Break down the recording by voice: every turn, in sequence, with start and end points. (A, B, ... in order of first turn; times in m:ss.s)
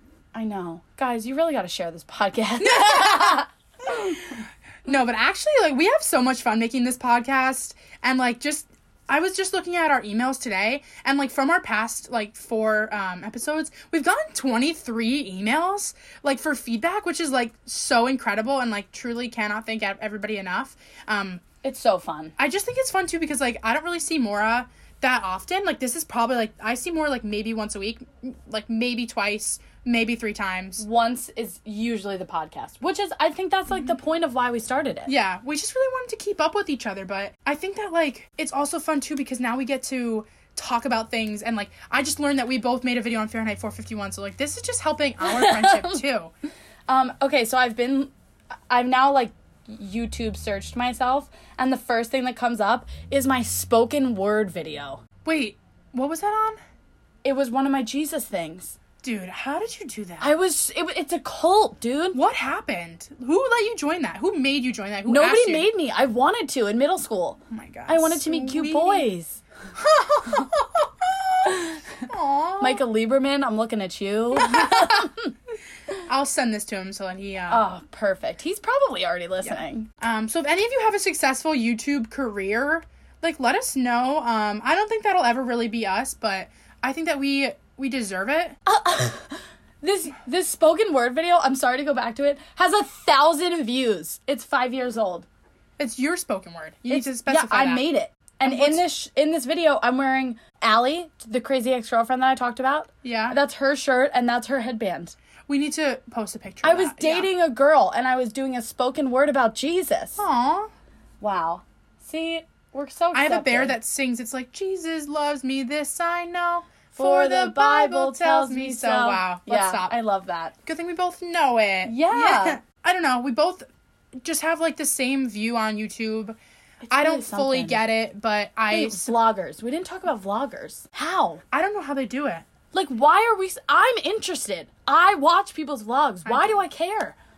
0:00.3-0:04.1 A
0:02.6-0:21.4 B
0:21.6-0:22.3 A
0:22.4-0:30.8 B
0:30.8-0:35.1 A
0:35.0-0:46.3 B
0:45.2-0:46.0 A
0:46.9-0:48.1 A
0:48.7-0:55.0 A
0:55.2-0:56.6 B
0:57.2-0:58.8 A
0:59.0-1:00.3 B
1:00.2-1:02.2 A
1:02.1-1:05.7 B
1:05.1-1:09.4 A
1:07.5-1:09.1 B
1:09.7-1:12.8 B
1:11.4-1:11.8 A
1:12.6-1:15.3 A
1:14.3-1:15.1 B
1:16.0-1:17.7 B
1:17.5-1:19.9 A
1:19.4-1:28.6 B
1:28.6-1:35.2 A
1:35.8-1:37.8 B
1:36.9-1:45.1 A
1:38.4-1:38.8 B
1:43.0-1:43.4 B
1:45.5-1:47.3 B
1:46.6-1:50.2 A
1:50.2-1:50.7 B
1:51.2-1:53.8 A
1:53.1-2:00.0 B
1:56.9-2:00.5 A
2:00.6-2:06.4 B
2:01.8-2:02.6 A
2:06.8-2:07.8 A
2:06.9-2:09.1 B
2:08.7-2:11.4 A
2:11.5-2:12.4 B
2:12.7-2:17.2 A
2:16.2-2:16.6 B